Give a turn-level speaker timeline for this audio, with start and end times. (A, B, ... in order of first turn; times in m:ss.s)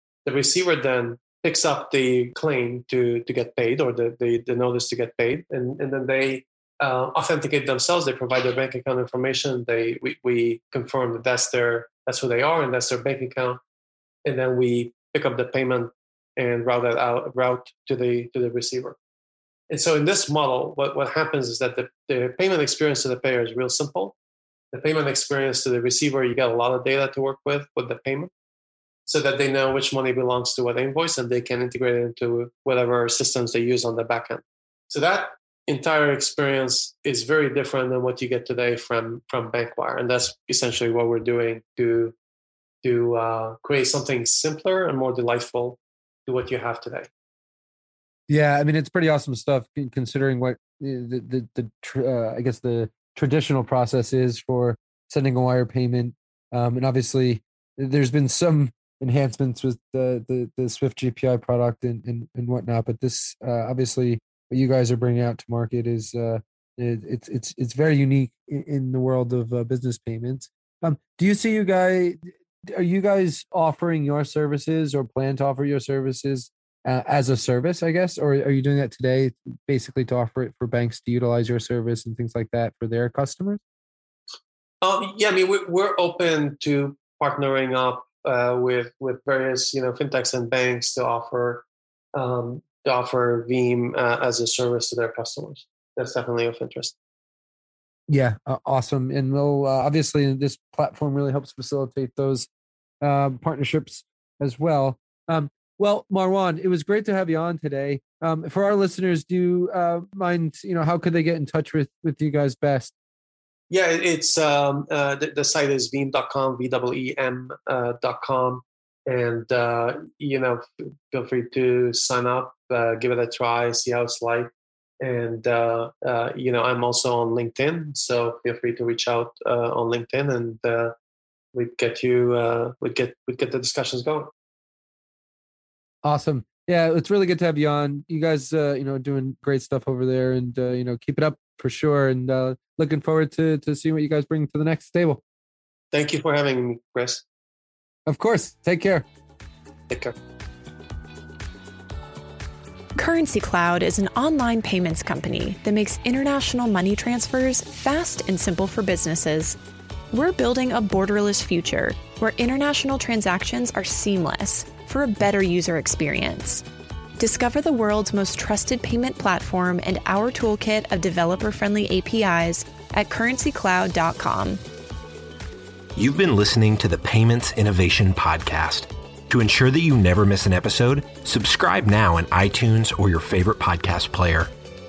0:00.2-0:13.6 A
0:14.2-0:19.0 A
0:19.7-0:24.2 A
0:24.7-0:28.3 A
0:29.0-0:42.1 A
0:42.8-0:47.1 A
0:48.3-1:23.6 B
1:24.8-1:36.9 A
1:38.1-1:42.5 B
1:43.0-1:52.9 B
1:53.7-2:04.5 A
2:05.0-2:10.9 A
2:11.5-2:14.3 A
2:16.0-2:25.2 B
2:25.9-2:27.2 A
2:28.1-2:29.0 B
2:29.9-2:30.1 A
2:33.0-2:39.6 C
2:40.1-2:46.6 C
2:47.2-2:54.6 C
2:55.9-3:04.5 D